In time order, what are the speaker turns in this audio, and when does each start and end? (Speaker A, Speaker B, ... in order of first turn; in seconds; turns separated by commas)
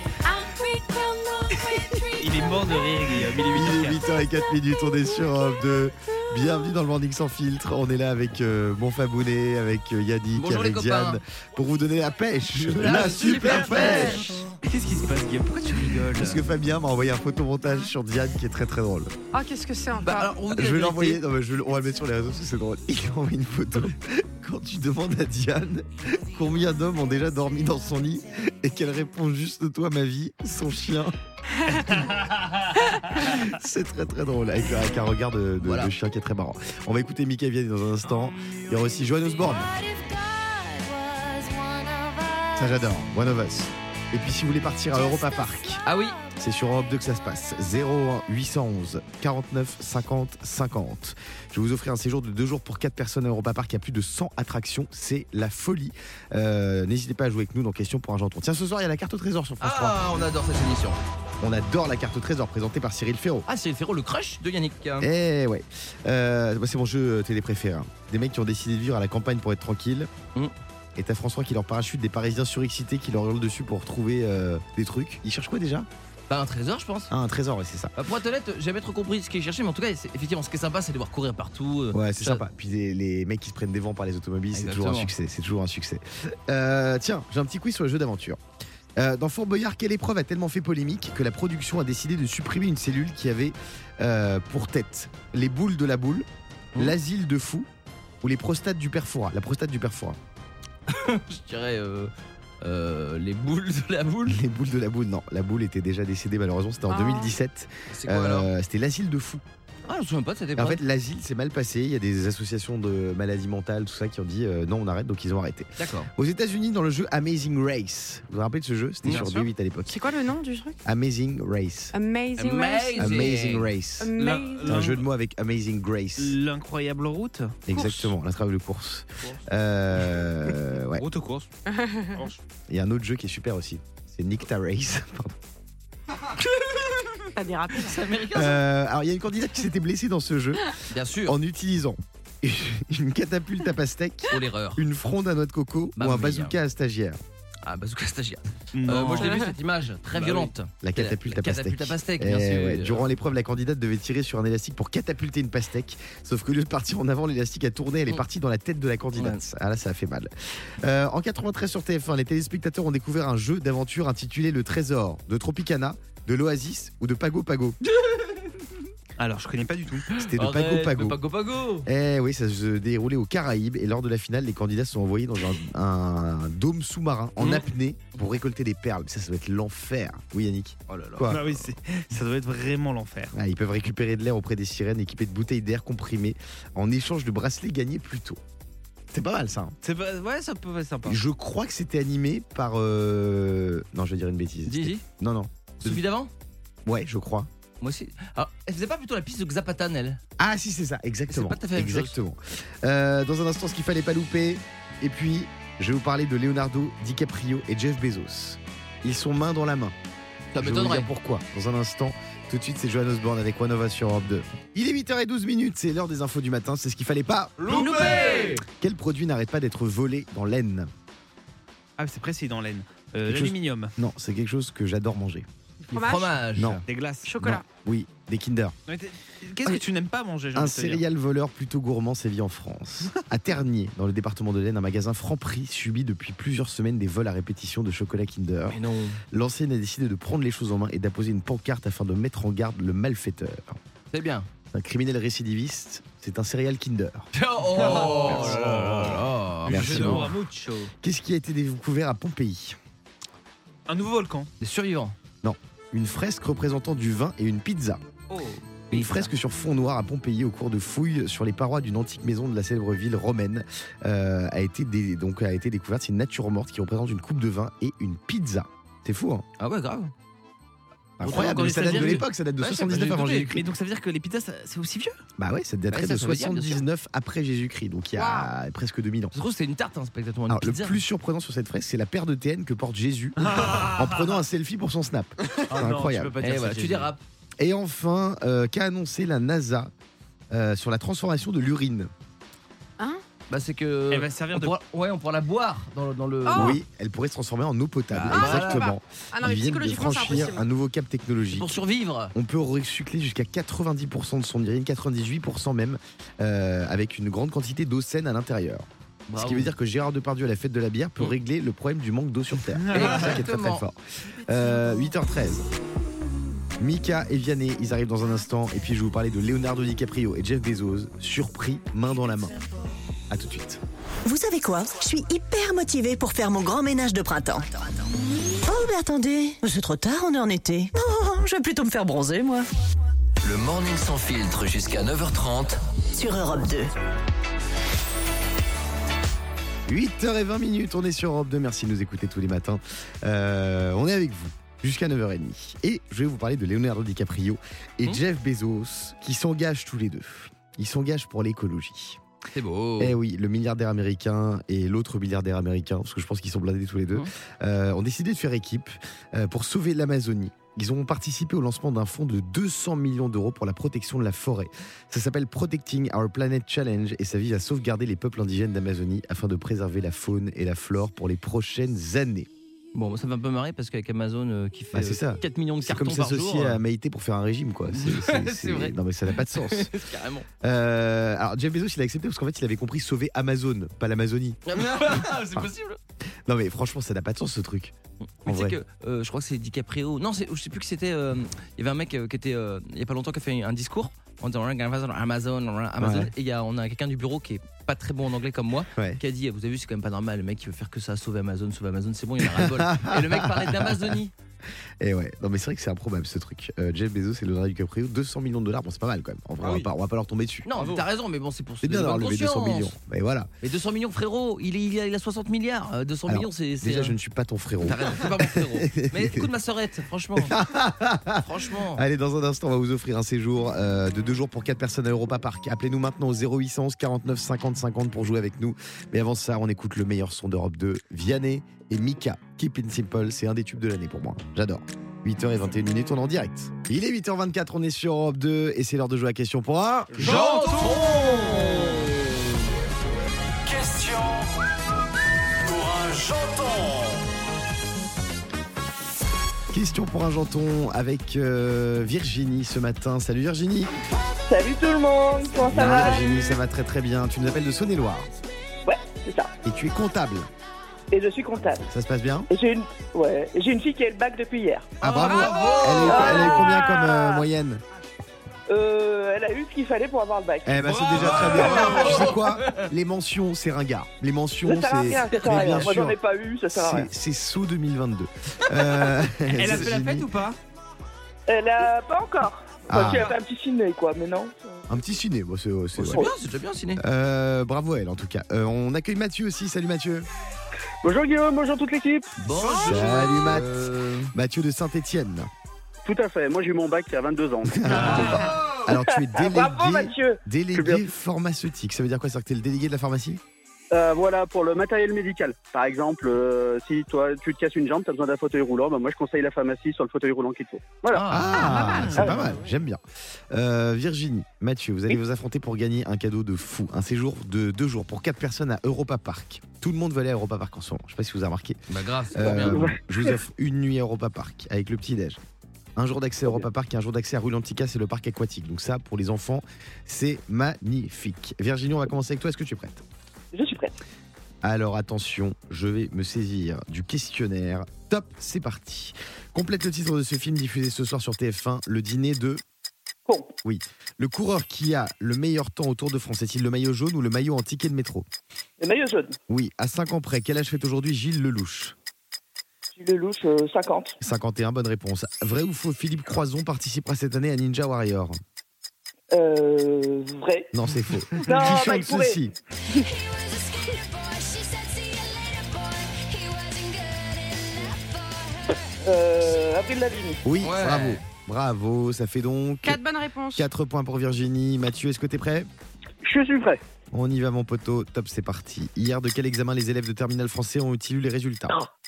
Speaker A: 2.1-4.0, Speaker B: 3.5-14.4, Speaker C: 10.3-11.2, Speaker C: 12.5-14.2, Speaker D: 13.1-14.3, Speaker A: 13.7-14.0, Speaker A: 14.6-16.4, Speaker B: 16.1-19.1, Speaker D: 19.3-20.4, Speaker C: 20.0-21.2, Speaker B: 20.5-31.1, Speaker D: 31.7-32.1, Speaker A: 32.0-32.6, Speaker B: 33.2-39.8, Speaker C: 35.6-35.9, Speaker B: 42.5-45.8, Speaker C: 45.8-46.2, Speaker B: 46.4-60.3, Speaker C: 59.6-61.0, Speaker B: 61.4-63.5, Speaker C: 63.5-65.1, Speaker B: 65.0-70.1, Speaker B: 71.0-75.9, Speaker C: 76.3-77.1, Speaker B: 77.1-77.9, Speaker C: 78.0-82.4, Speaker B: 81.9-88.4, Speaker C: 84.5-85.1, Speaker B: 89.0-97.7, Speaker B: 98.2-100.2, Speaker C: 100.9-104.4, Speaker B: 104.3-109.4, Speaker D: 106.9-107.3, Speaker C: 107.9-108.5, Speaker C: 109.9-110.8, Speaker B: 110.5-120.0, Speaker C: 115.8-116.1, Speaker A: 119.1-119.5, Speaker D: 119.9-120.8, Speaker B: 120.8-121.9, Speaker D: 121.9-123.2, Speaker C: 122.3-123.7, Speaker B: 123.0-124.1, Speaker D: 124.0-124.8, Speaker A: 124.2-125.1, Speaker B: 124.7-126.4, Speaker A: 126.2-127.7, Speaker B: 127.7-131.0, Speaker D: 127.7-128.1, Speaker A: 130.9-131.5, Speaker D: 131.7-132.2, Speaker B: 132.7-135.3, Speaker D: 137.3-138.0, Speaker C: 137.8-138.6, Speaker B: 138.3-140.7, Speaker C: 140.9-141.4, Speaker B: 141.2-147.2, Speaker C: 144.3-144.8, Speaker C: 145.9-146.6, Speaker C: 147.7-153.1, Speaker A: 148.7-149.4, Speaker D: 149.2-149.5, Speaker B: 150.8-167.8, Speaker C: 159.2-159.4, Speaker A: 169.2-170.1, Speaker B: 170.2-171.2, Speaker C: 170.2-171.9, Speaker B: 171.8-181.4, Speaker C: 180.9-181.6, Speaker A: 181.3-183.3, Speaker B: 183.3-188.4, Speaker B: 189.1-189.8, Speaker A: 189.8-191.2, Speaker B: 191.1-196.0, Speaker C: 194.7-195.0, Speaker C: 195.8-196.3, Speaker B: 196.8-197.5, Speaker C: 197.8-200.2, Speaker B: 200.4-209.9, Speaker C: 201.3-202.2, Speaker C: 210.5-211.1, Speaker B: 210.6-217.8, Speaker C: 217.7-218.6, Speaker D: 217.7-218.6, Speaker A: 217.7-218.3, Speaker B: 218.8-220.9, Speaker A: 222.0-223.9, Speaker B: 223.2-225.5, Speaker D: 225.9-226.4, Speaker C: 225.9-226.8, Speaker B: 226.6-226.8, Speaker A: 226.9-227.3, Speaker D: 227.2-227.7, Speaker B: 227.4-228.8, Speaker A: 228.9-231.0, Speaker B: 230.5-238.8, Speaker C: 238.7-239.2, Speaker B: 239.3-243.8, Speaker C: 244.1-244.5, Speaker B: 244.7-247.3, Speaker C: 247.3-250.3, Speaker A: 247.8-250.9, Speaker B: 247.8-248.9, Speaker B: 249.7-250.4, Speaker B: 251.0-252.8, Speaker A: 253.9-254.5, Speaker C: 254.6-255.1, Speaker B: 255.4-258.0, Speaker A: 258.3-258.6, Speaker C: 258.9-259.3, Speaker B: 258.9-269.4, Speaker C: 269.6-270.1, Speaker B: 271.2-273.6, Speaker C: 271.2-273.6, Speaker A: 271.5-272.2, Speaker A: 273.2-275.2, Speaker B: 275.4-279.3, Speaker C: 275.9-276.8, Speaker D: 278.1-278.5, Speaker C: 279.3-281.0, Speaker B: 280.5-286.4, Speaker A: 283.4-284.4, Speaker A: 285.6-287.1, Speaker C: 286.4-287.2, Speaker B: 287.6-289.9, Speaker B: 290.5-292.1, Speaker C: 293.5-296.8, Speaker A: 294.1-294.8, Speaker D: 296.4-296.8, Speaker B: 296.5-301.8, Speaker C: 298.1-298.9, Speaker D: 298.3-300.7, Speaker C: 301.5-302.3, Speaker B: 302.3-315.7, Speaker C: 309.3-309.7, Speaker A: 312.7-313.4, Speaker C: 312.9-313.9, Speaker C: 314.4-315.0, Speaker B: 316.8-322.6, Speaker B: 323.3-323.8, Speaker E: 324.2-327.7, Speaker E: 328.6-332.6, Speaker F: 333.4-335.8, Speaker E: 336.1-336.9, Speaker B: 339.9-352.2, Speaker C: 352.5-353.2, Speaker B: 353.0-372.5, Speaker C: 372.9-376.8, Speaker B: 374.9-379.9, Speaker C: 377.9-380.4, Speaker B: 380.6-385.7, Speaker C: 384.7-386.0, Speaker B: 386.4-387.9, Speaker C: 388.4-404.3, Speaker B: 388.4-388.8, Speaker B: 396.0-396.3, Speaker B: 398.9-399.2, Speaker B: 402.4-404.2, Speaker B: 405.0-410.8, Speaker C: 409.6-409.9, Speaker C: 410.6-412.9, Speaker B: 411.8-413.5, Speaker C: 413.6-417.1, Speaker B: 416.3-419.5, Speaker C: 417.8-420.6, Speaker B: 420.4-440.4, Speaker C: 421.4-422.0, Speaker C: 440.1-442.1, Speaker A: 440.2-441.7, Speaker B: 449.7-454.0, Speaker G: 454.5-456.4, Speaker B: 455.6-458.3, Speaker G: 458.8-459.5, Speaker B: 459.6-460.5, Speaker G: 461.1-461.9, Speaker B: 461.8-462.5, Speaker G: 462.5-464.9, Speaker C: 465.0-466.8, Speaker B: 465.0-467.8, Speaker G: 466.0-466.7, Speaker G: 468.7-470.8, Speaker B: 470.6-476.2, Speaker A: 470.8-472.3, Speaker C: 471.2-472.9, Speaker G: 474.6-477.1, Speaker C: 475.4-475.7, Speaker B: 476.7-480.3, Speaker A: 479.5-480.6, Speaker G: 481.5-484.9, Speaker B: 482.9-483.4, Speaker B: 484.9-486.2, Speaker G: 486.0-486.3, Speaker C: 486.1-487.0, Speaker B: 487.0-490.3, Speaker H: 491.0-492.3, Speaker C: 492.4-494.3, Speaker B: 492.6-495.5, Speaker H: 496.1-498.3, Speaker B: 497.6-503.4, Speaker C: 497.9-498.3, Speaker G: 498.9-500.4, Speaker H: 500.7-501.1, Speaker H: 503.9-511.3, Speaker C: 511.1-512.3, Speaker B: 511.3-521.8, Speaker D: 511.6-512.6, Speaker A: 511.7-512.5, Speaker C: 521.9-523.0, Speaker B: 522.3-525.4, Speaker B: 526.0-533.0, Speaker G: 533.5-534.0, Speaker B: 534.6-542.6, Speaker B: 543.6-548.3, Speaker G: 548.8-549.4, Speaker B: 549.5-552.0, Speaker G: 553.0-554.2, Speaker B: 554.2-558.4, Speaker G: 559.3-560.7, Speaker B: 560.7-562.5, Speaker G: 561.4-563.1, Speaker G: 569.0-570.4, Speaker B: 570.4-573.0, Speaker C: 570.6-571.2, Speaker D: 572.8-573.7, Speaker B: 573.5-575.7, Speaker H: 576.2-576.8, Speaker B: 577.1-581.8